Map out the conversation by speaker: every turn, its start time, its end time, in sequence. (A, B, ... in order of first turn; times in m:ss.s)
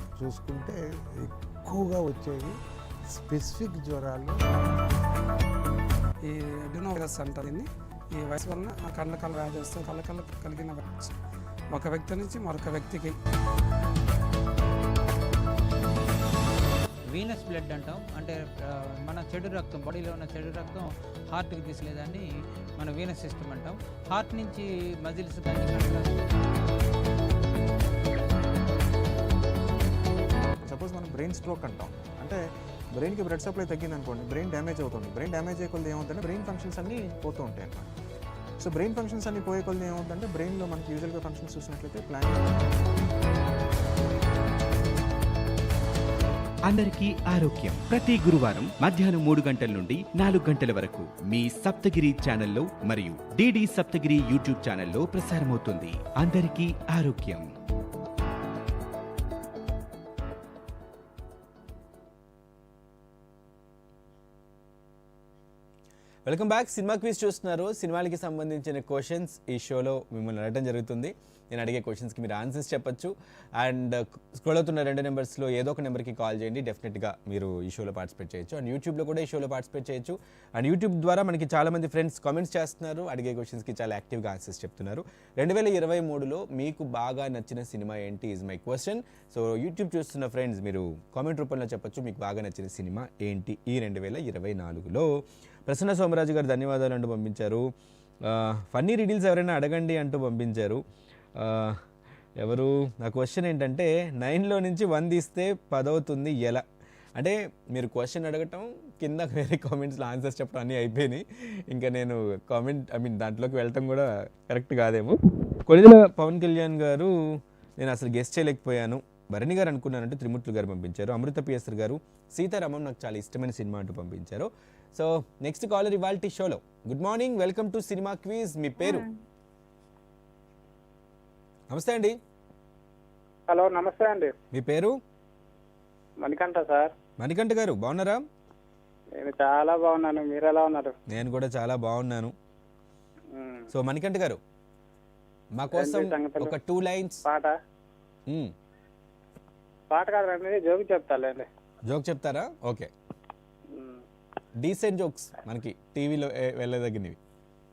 0:00.2-0:02.6 A
0:03.1-0:04.4 A
0:06.2-0:11.1 B
0:11.7-0:13.2 B
0:17.1-0:26.2 C
0:30.6-0:32.4 D
0:32.9-0:37.9 D
0:38.6-0:42.4 D
0:46.7-0:47.6 E
0:46.8-0:48.9 F
0:48.3-0:57.4 E
0:51.4-0:52.6 F
1:06.3-1:35.1 F
1:35.7-1:37.6 F
1:38.3-1:40.8 F
1:41.4-1:41.8 F
1:42.4-1:46.6 F
1:47.2-1:55.2 F
1:55.7-1:57.1 F
1:57.8-2:09.0 F
2:11.7-2:12.2 F
2:13.5-2:14.3 G
2:14.5-2:14.9 F
2:16.2-2:16.9 G
2:17.2-2:18.2 F
2:19.2-2:20.9 G
2:21.1-2:22.3 F
2:23.3-2:23.6 G
2:23.7-2:24.4 F
2:25.6-2:27.2 F
2:25.7-2:26.6 G
2:27.2-2:27.5 G
2:29.9-2:31.5 G
2:31.9-2:32.9 F
2:33.7-2:34.0 G
2:34.6-2:37.2 F